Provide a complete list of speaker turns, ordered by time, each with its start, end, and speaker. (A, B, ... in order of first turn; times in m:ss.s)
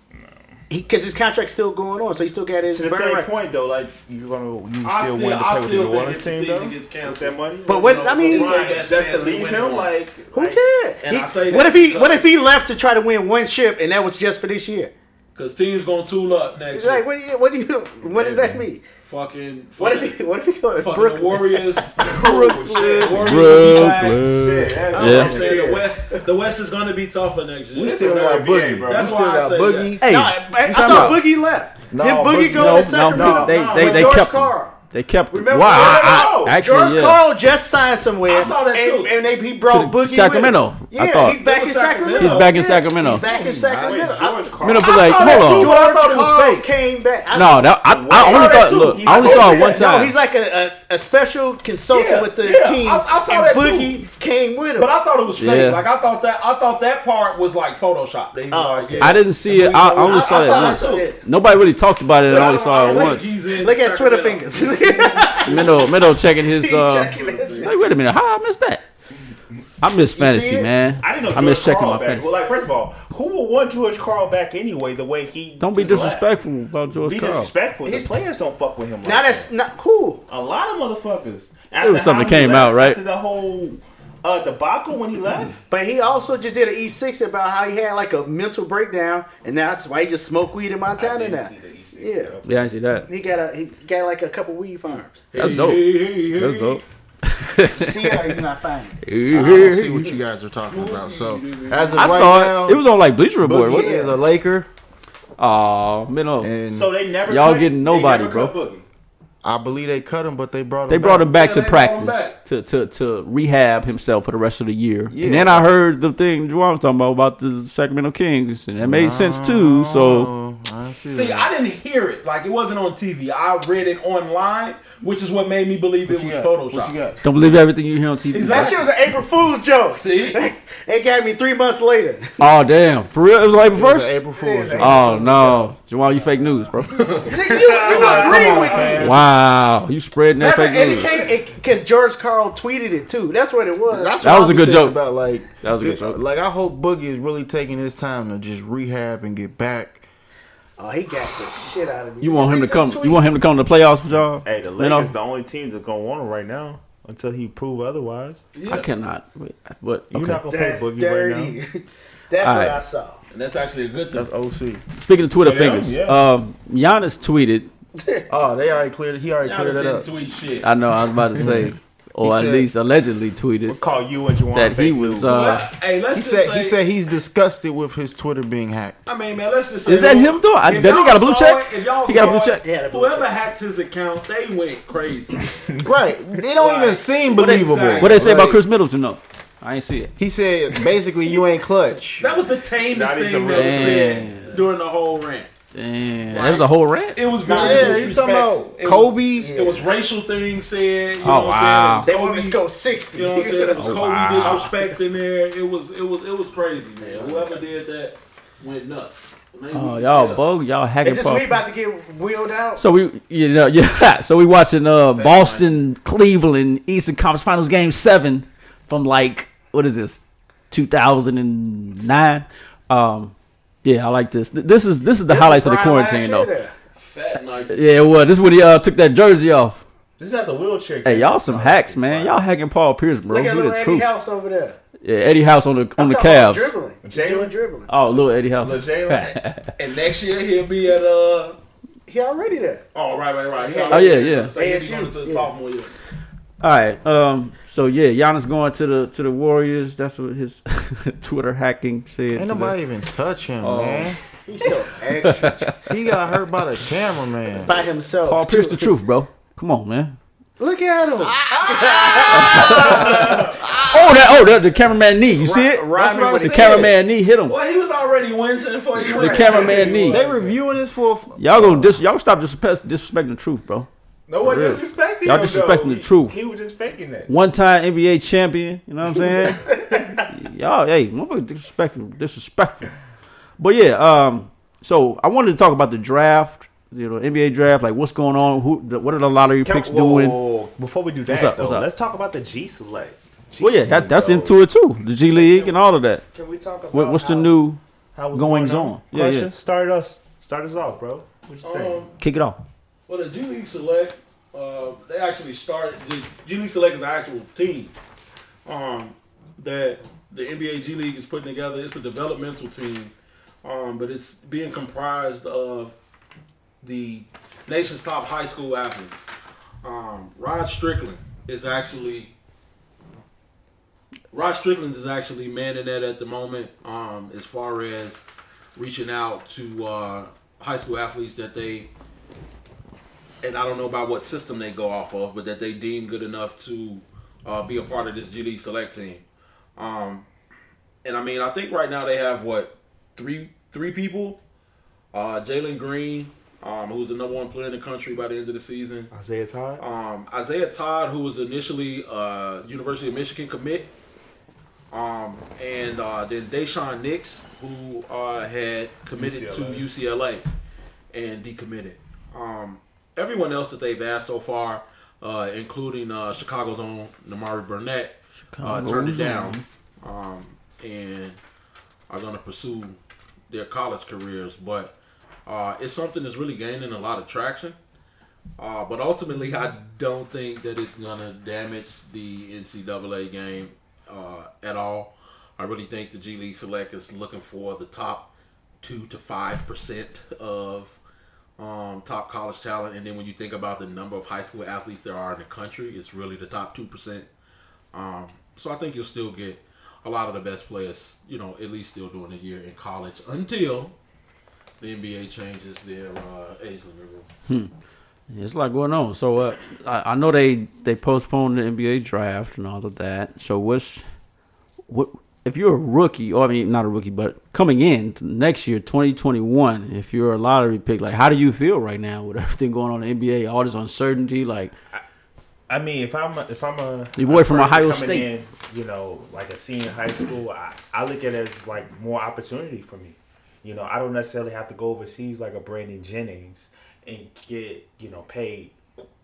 0:00.7-0:03.3 A
0:02.7-0:10.6 B
0:04.8-0:09.9 C
0:07.6-0:08.8 A
0:10.3-0:14.9 A
0:11.0-0:12.3 C
0:15.3-0:17.0 C
0:16.7-0:18.8 A
0:18.0-0:18.6 B
0:19.0-0:20.1 C
0:19.8-0:22.9 A
0:20.8-0:22.0 C
0:22.0-0:25.8 B
0:22.0-0:25.3 D
0:22.9-0:24.3 C
0:24.9-0:25.4 A
0:25.0-0:29.9 C
0:25.0-0:25.9 E
0:27.7-0:29.3 B
0:27.8-0:30.0 E
0:30.0-0:31.2 D
0:30.0-0:34.8 A
0:30.7-0:31.2 E
0:31.9-0:33.6 E
0:32.4-0:34.3 B
0:32.5-0:37.2 D
0:35.3-0:54.9 A
0:35.6-0:36.5 B
0:38.2-0:39.2 C
0:39.7-0:41.4 D
0:41.4-0:42.6 C
0:42.1-0:43.2 D
0:43.2-0:44.0 C
0:43.7-0:45.8 B
0:44.6-0:45.7 D
0:45.3-0:46.6 C
0:47.3-0:50.1 D
0:47.9-0:50.1 B
0:49.3-0:49.6 C
0:51.9-0:54.0 C
0:54.8-1:01.1 C
0:55.4-0:55.8 D
0:58.5-0:59.2 A
0:59.0-1:03.4 D
1:00.0-1:01.2 A
1:02.2-1:04.5 C
1:03.6-1:07.8 A
1:05.5-1:08.8 D
1:07.1-1:07.9 C
1:09.8-1:12.3 D
1:10.2-1:10.7 A
1:11.0-1:16.4 B
1:15.6-1:17.5 D
1:17.0-1:19.5 B
1:17.8-1:18.1 A
1:19.0-1:20.2 A
1:20.3-1:25.6 B
1:21.8-1:23.0 D
1:25.7-1:32.4 A
1:31.0-1:32.6 B
1:32.4-1:33.1 D
1:33.1-1:35.2 A
1:35.3-1:36.8 C
1:35.3-1:38.4 D
1:37.7-1:39.0 A
1:39.0-1:40.1 D
1:39.3-1:42.8 E
1:40.7-1:42.3 C
1:42.0-1:43.9 D
1:43.4-1:44.7 E
1:43.7-1:44.2 A
1:45.4-1:46.5 D
1:46.4-1:46.9 E
1:46.7-1:48.8 B
1:47.3-1:48.5 D
1:49.4-1:51.3 E
1:50.9-2:00.3 D
1:51.1-1:52.3 C
1:55.1-1:55.6 E
1:58.8-2:01.5 E
2:01.1-2:07.6 C
2:06.1-2:07.2 E
2:07.2-2:08.8 D
2:08.3-2:08.8 C
2:08.4-2:12.4 A
2:09.9-2:10.4 C
2:12.4-2:14.2 D
2:13.7-2:15.7 E
2:14.4-2:15.0 A
2:14.4-2:15.3 B
2:14.8-2:17.1 D
2:16.9-2:17.4 C
2:17.2-2:19.1 A
2:17.3-2:19.1 B
2:17.7-2:19.3 E
2:18.1-2:18.6 C
2:19.0-2:21.2 D
2:20.4-2:24.1 A
2:23.9-2:30.0 E
2:24.2-2:26.2 D
2:30.8-2:33.2 A
2:32.2-2:35.1 D
2:34.4-2:38.4 B
2:38.5-2:38.9 C
2:38.6-2:40.4 D
2:40.1-2:41.6 B
2:40.5-2:43.2 A
2:42.4-2:42.8 D
2:43.3-2:44.3 C
2:44.1-2:44.8 E
2:45.0-2:47.7 D
2:45.4-2:46.2 B
2:48.0-2:48.3 A
2:48.3-2:50.1 E
2:49.4-2:50.7 C
2:50.6-2:53.8 D
2:51.4-2:52.7 E
2:53.7-2:55.6 B
2:54.5-2:55.6 D
2:55.3-2:56.8 C
2:56.1-2:59.0 E
2:59.0-3:05.6 C
2:59.8-3:02.6 D
3:02.2-3:03.3 A
3:05.8-3:08.6 E
3:06.6-3:08.4 C
3:08.0-3:10.1 D
3:10.2-3:12.3 E
3:12.2-3:15.5 C
3:12.9-3:14.4 B
3:13.5-3:14.5 D
3:15.7-3:18.1 D
3:16.3-3:22.6 C
3:17.4-3:18.1 A
3:17.5-3:19.5 E
3:19.3-3:19.9 A
3:21.2-3:22.1 D
3:22.0-3:23.9 A
3:23.1-3:30.4 C
3:23.8-3:24.7 D
3:24.4-3:24.7 A
3:27.0-3:27.6 A
3:29.7-3:31.6 D
3:31.0-3:32.8 A
3:32.8-3:43.3 D
3:35.1-3:35.7 C
3:43.8-3:46.5 D
3:45.3-3:46.7 A
3:47.0-3:47.8 C
3:47.7-3:49.8 D
3:50.2-3:52.4 B
3:51.0-3:54.1 D
3:53.3-3:54.8 A
3:55.0-3:56.8 D
3:56.0-3:57.9 A
3:57.0-3:57.5 B
3:57.9-3:59.7 D
3:58.1-3:59.3 B
3:59.3-4:01.6 C
4:02.1-4:02.8 A
4:02.9-4:05.9 C
4:03.6-4:05.5 A
4:03.9-4:04.5 D
4:06.6-4:12.8 D
4:12.3-4:14.2 E
4:13.6-4:14.1 D
4:14.4-4:15.7 A
4:15.2-4:15.7 D
4:15.8-4:17.8 E
4:17.6-4:18.9 A
4:18.3-4:20.2 D
4:20.6-4:23.5 A
4:21.2-4:24.3 E
4:22.5-4:23.1 D
4:22.7-4:23.6 B
4:23.8-4:27.6 D
4:25.3-4:26.9 A
4:26.0-4:26.9 E
4:27.5-4:30.2 C
4:29.0-4:30.2 D
4:29.0-4:29.4 A
4:29.2-4:30.6 B
4:30.1-4:32.0 E
4:31.4-4:33.9 D
4:34.3-4:37.3 B
4:34.4-4:36.4 D
4:37.3-4:42.9 D
4:39.2-4:40.2 B
4:43.6-4:50.4 D
4:49.6-4:54.6 B
4:51.3-4:51.9 D
4:53.6-4:56.2 D
4:55.3-4:57.5 B
4:56.9-4:57.8 D
4:58.1-5:02.0 B
4:58.3-4:59.5 D
5:01.6-5:02.1 C
5:02.2-5:02.6 D
5:03.1-5:07.9 C
5:08.6-5:15.9 C
5:16.8-5:19.1 C
5:19.8-5:22.3 C
5:24.3-5:28.2 C
5:28.8-5:31.9 C
5:33.4-5:39.2 C
5:39.8-5:40.3 C
5:41.0-5:44.4 C
5:45.1-5:49.1 C
5:49.1-5:49.8 B
5:49.8-5:53.9 C
5:54.9-6:00.4 C
5:59.1-5:59.9 B
6:01.1-6:11.4 C
6:08.5-6:09.6 D
6:12.1-6:13.0 C
6:13.5-6:17.8 C
6:18.6-6:31.0 C
6:31.6-6:37.3 C
6:37.9-6:43.9 C
6:44.8-6:47.3 C
6:48.3-6:54.0 D
6:54.9-7:04.7 D
7:05.7-7:18.8 B
7:07.2-7:08.3 D